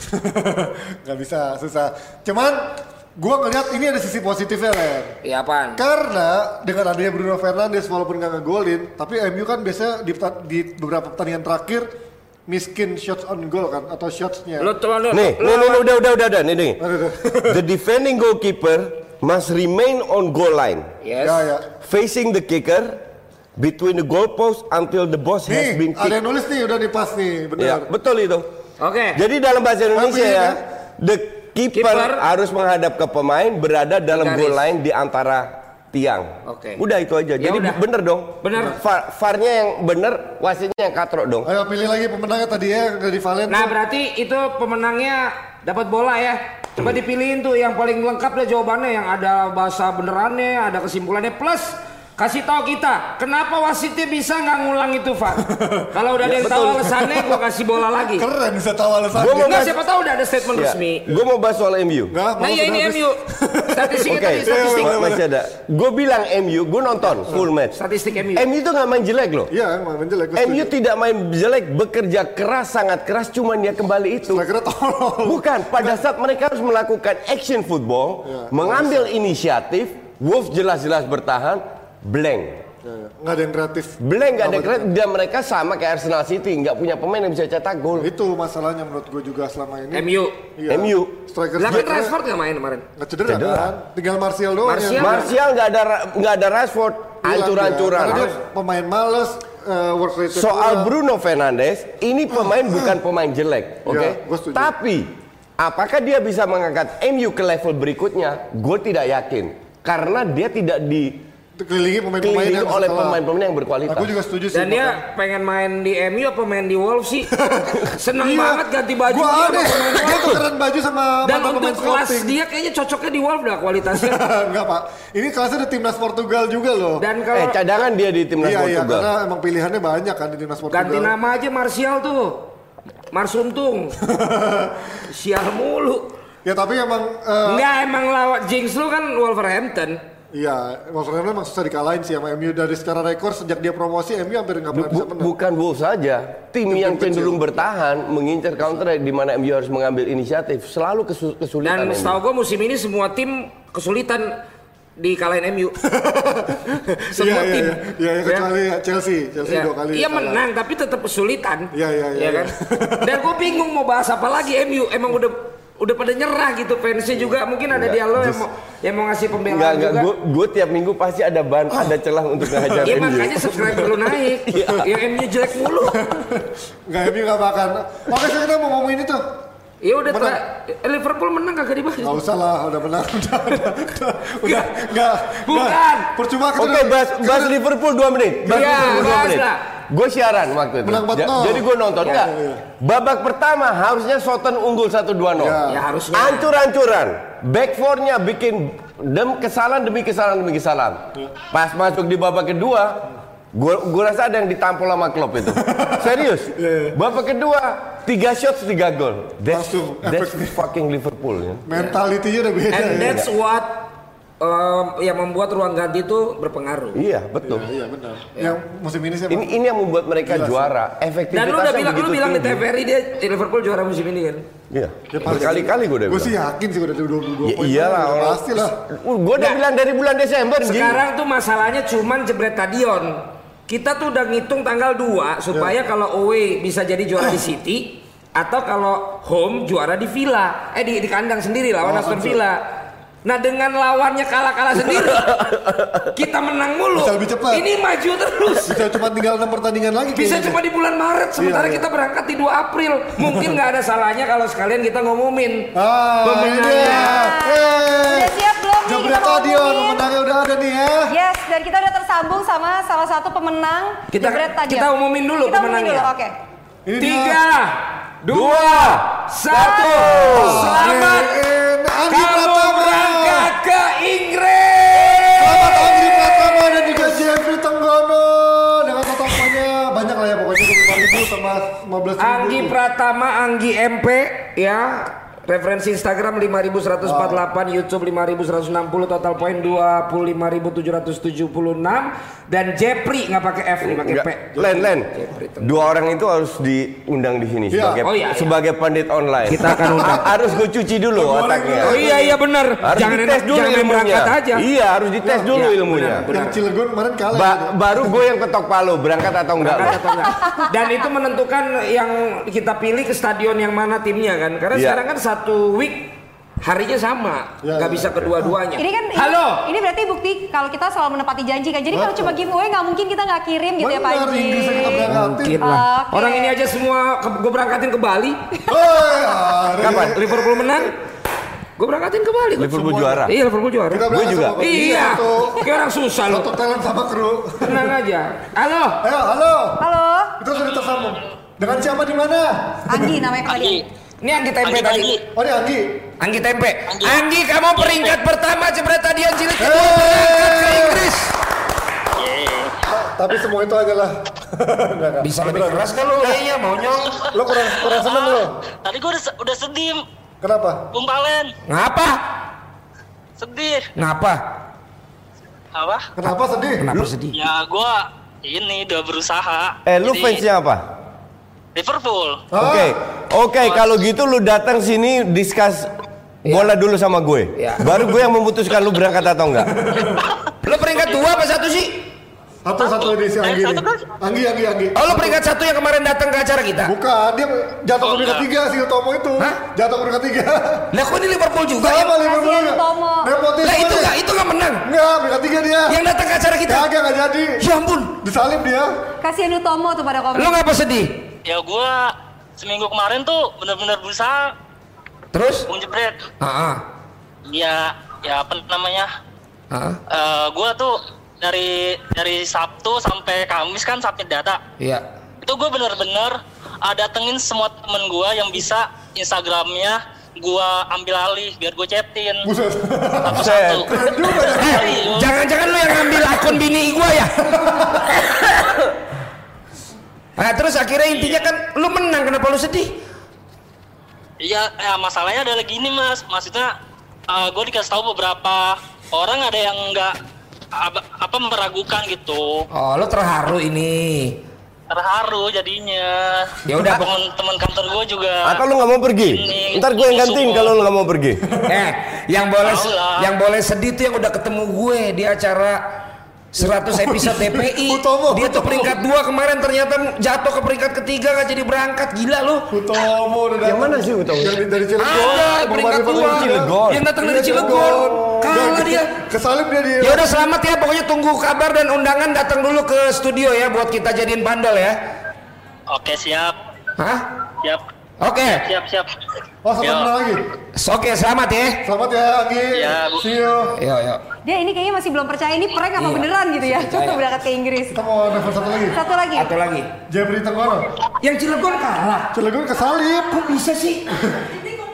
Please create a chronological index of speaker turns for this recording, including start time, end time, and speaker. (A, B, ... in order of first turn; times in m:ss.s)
0:00.1-0:05.1 A
0:05.2-0:05.8 B
0:05.8-0:11.9 A
0:12.5-0:14.7 A
0:14.6-0:15.8 B
0:15.1-0:16.8 C
0:16.8-0:17.6 A
0:17.5-0:20.9 C
0:21.0-0:21.4 B
0:21.2-0:21.7 A
0:21.8-0:23.0 C
0:23.6-0:26.2 C
0:25.5-0:27.9 A
0:27.6-0:28.5 C
0:28.8-0:29.2 B
0:29.1-0:41.5 C
0:29.9-0:30.6 A
0:31.7-0:32.2 B
0:34.1-0:34.6 B
0:36.4-0:36.8 B
0:37.4-0:37.8 B
0:38.4-0:38.8 B
0:41.4-0:43.8 A
0:43.5-0:58.2 B
0:55.4-0:55.9 A
0:56.2-0:57.0 C
0:58.2-0:59.7 A
0:59.1-0:59.8 C
0:59.4-1:01.2 B
1:00.5-1:02.2 C
1:02.1-1:05.3 A
1:02.4-1:05.0 B
1:04.1-1:07.8 C
1:07.7-1:08.5 B
1:08.4-1:09.5 C
1:09.5-1:10.7 A
1:10.4-1:14.5 C
1:14.3-1:16.0 A
1:15.2-1:22.6 C
1:18.2-1:19.1 A
1:22.8-1:24.9 A
1:24.0-1:28.1 C
1:28.0-1:32.2 A
1:29.9-1:30.3 B
1:30.7-1:31.2 C
1:31.6-1:32.8 B
1:33.0-1:35.2 A
1:33.3-1:33.8 C
1:34.6-1:35.3 B
1:35.0-1:38.3 C
1:37.2-1:40.9 A
1:40.3-1:51.2 C
1:43.9-1:44.7 A
1:51.6-1:53.2 A
1:52.2-1:54.2 C
1:53.9-1:55.0 A
1:54.5-1:57.3 B
1:57.3-2:02.3 A
1:58.0-2:00.3 B
2:01.2-2:04.2 B
2:03.9-2:07.0 A
2:07.0-2:07.6 B
2:07.3-2:09.1 C
2:08.4-2:11.1 A
2:10.7-2:12.4 B
2:13.1-2:14.0 B
2:14.1-2:14.9 A
2:15.1-2:16.1 B
2:16.4-2:17.6 A
2:17.5-2:20.0 B
2:20.3-2:25.3 A
2:24.7-2:32.2 C
2:26.7-2:27.6 A
2:31.6-2:34.4 B
2:35.0-2:35.8 B
2:35.8-2:40.4 A
2:37.2-2:38.5 B
2:39.4-2:50.1 B
2:41.7-2:43.3 A
2:47.7-2:48.4 C
2:49.5-2:53.8 C
2:52.6-2:53.1 A
2:52.8-2:56.0 B
2:54.5-2:54.9 C
2:55.9-2:59.2 A
2:59.8-3:02.2 B
3:00.1-3:00.4 A
3:02.0-3:07.6 A
3:04.4-3:04.8 B
3:05.4-3:06.1 B
3:06.6-3:15.6 C
3:08.5-3:09.6 B
3:08.6-3:09.1 A
3:10.8-3:12.6 A
3:15.4-3:15.8 A
3:15.7-3:16.5 B
3:16.1-3:31.6 C
3:25.6-3:27.0 A
3:29.5-3:30.6 A
3:31.7-3:33.2 A
3:32.7-3:33.8 B
3:34.4-3:37.0 B
3:37.0-3:37.7 C
3:37.4-3:39.5 A
3:39.3-3:42.6 C
3:40.2-3:40.7 A
3:41.3-3:44.4 B
3:44.7-3:46.4 C
3:45.1-3:48.8 A
3:47.4-3:51.0 C
3:50.6-4:02.6 B
4:01.8-4:02.4 A
4:03.2-4:05.4 B
4:05.1-4:06.1 C
4:06.1-4:08.8 B
4:07.0-4:07.7 A
4:08.6-4:10.6 A
4:10.2-4:15.7 B
4:11.4-4:11.8 A
4:13.2-4:13.5 A
4:15.8-4:18.3 A
4:16.2-4:17.2 B
4:16.8-4:20.0 D
4:18.8-4:21.1 A
4:21.1-4:24.9 D
4:24.1-4:26.1 B
4:25.4-4:26.3 D
4:26.9-4:27.4 A
4:27.0-4:31.3 B
4:28.3-4:30.8 C
4:30.2-4:33.5 A
4:32.1-4:37.2 B
4:35.4-4:42.8 A
4:42.2-4:55.8 B
4:47.0-4:47.4 A
4:53.8-4:55.1 C
4:55.6-5:02.3 C
4:57.7-4:58.0 A
4:58.0-4:58.5 B
4:59.5-5:00.3 B
5:01.2-5:02.4 A
5:01.8-5:04.6 B
5:02.8-5:06.3 C
5:05.2-5:05.5 A
5:05.5-5:06.6 B
5:06.1-5:07.7 A
5:07.3-5:10.0 C
5:09.6-5:16.1 B
5:14.7-5:15.0 C
5:16.6-5:19.6 B
5:17.6-5:18.3 A
5:18.8-5:26.5 D
5:21.9-5:22.4 A
5:23.8-5:25.6 A
5:25.1-5:28.6 B
5:28.7-5:30.9 A
5:29.8-5:30.2 C
5:29.8-5:31.0 B
5:31.8-5:34.0 B
5:32.6-5:33.4 C
5:32.8-5:33.2 A
5:33.9-5:35.7 A
5:34.1-5:34.6 C
5:34.6-5:36.5 B
5:36.3-5:37.9 A
5:37.6-5:39.0 B
5:39.0-5:39.8 A
5:39.8-5:40.3 D
5:40.4-5:43.2 A
5:42.9-5:43.8 D
5:43.5-5:43.8 E
5:44.2-5:45.1 B
5:44.6-5:45.2 E
5:45.4-5:46.0 A
5:46.2-5:51.3 B
5:47.8-5:48.1 E
5:49.6-5:51.1 A
5:52.2-5:52.7 E
5:52.9-5:56.2 A
5:55.2-5:57.2 B
5:57.2-6:00.0 E
5:57.3-5:58.6 A
6:00.4-6:00.8 A
6:00.9-6:01.5 E
6:01.7-6:02.2 B
6:03.4-6:03.9 E
6:04.0-6:04.4 B
6:05.7-6:06.1 E
6:06.2-6:06.9 A
6:06.8-6:07.4 B
6:07.3-6:10.5 E
6:09.9-6:10.9 C
6:11.8-6:12.4 E
6:12.5-6:13.0 A
6:12.6-6:15.9 C
6:13.6-6:14.0 E
6:16.5-6:16.7 B
6:16.5-6:19.7 C
6:17.6-6:17.9 B
6:19.7-6:20.2 A
6:20.6-6:22.0 B
6:20.9-6:21.3 E
6:22.6-6:25.4 A
6:22.8-6:24.0 E
6:25.0-6:26.9 B
6:26.8-6:30.9 A
6:28.0-6:28.5 E
6:30.9-6:32.1 B
6:31.8-6:34.2 A
6:32.2-6:33.3 D
6:33.6-6:34.9 B
6:34.8-6:36.0 A
6:35.9-6:36.9 B
6:36.7-6:37.5 A
6:37.6-6:38.2 B
6:38.2-6:38.9 A
6:39.2-6:40.6 D
6:40.4-6:41.1 B
6:41.5-6:44.5 E
6:45.3-6:45.7 B
6:45.7-6:46.2 E
6:46.4-6:46.8 B
6:47.5-6:49.1 E
6:49.7-6:50.0 B
6:50.1-6:54.6 E
6:54.8-6:55.0 B
6:55.4-7:02.5 E
7:02.4-7:05.1 A
7:03.3-7:05.3 E
7:03.3-7:03.9 C
7:04.6-7:07.4 B
7:07.5-7:08.2 A
7:10.4-7:12.9 B
7:11.1-7:11.5 E
7:14.4-7:16.7 E
7:17.3-7:20.2 E
7:20.8-7:22.6 E
7:22.7-7:24.4 B
7:24.9-7:28.6 E
7:26.7-7:27.1 B
7:28.4-7:31.4 C
7:29.2-7:30.8 E
7:31.7-7:35.8 B
7:32.6-7:33.3 E
7:36.5-7:42.7 B
7:36.6-7:39.0 A
7:42.7-7:50.4 A
7:43.6-7:44.6 C
7:45.0-7:49.1 B
7:46.2-7:47.8 C
7:50.0-7:55.0 B
7:55.9-7:56.6 E
7:57.0-7:57.2 B
7:58.2-7:58.6 B
7:58.4-7:59.1 E
7:59.6-8:00.4 A
7:59.8-8:00.1 E
8:00.8-8:01.8 B
8:01.8-8:03.7 A
8:02.8-8:03.3 E
8:03.8-8:04.2 B
8:04.4-8:08.0 D
8:06.0-8:07.2 B
8:07.9-8:09.0 A
8:08.9-8:09.5 D
8:09.3-8:09.9 B
8:10.1-8:10.9 A
8:11.2-8:12.3 B
8:12.3-8:13.3 A
8:13.3-8:14.1 B
8:14.2-8:14.5 A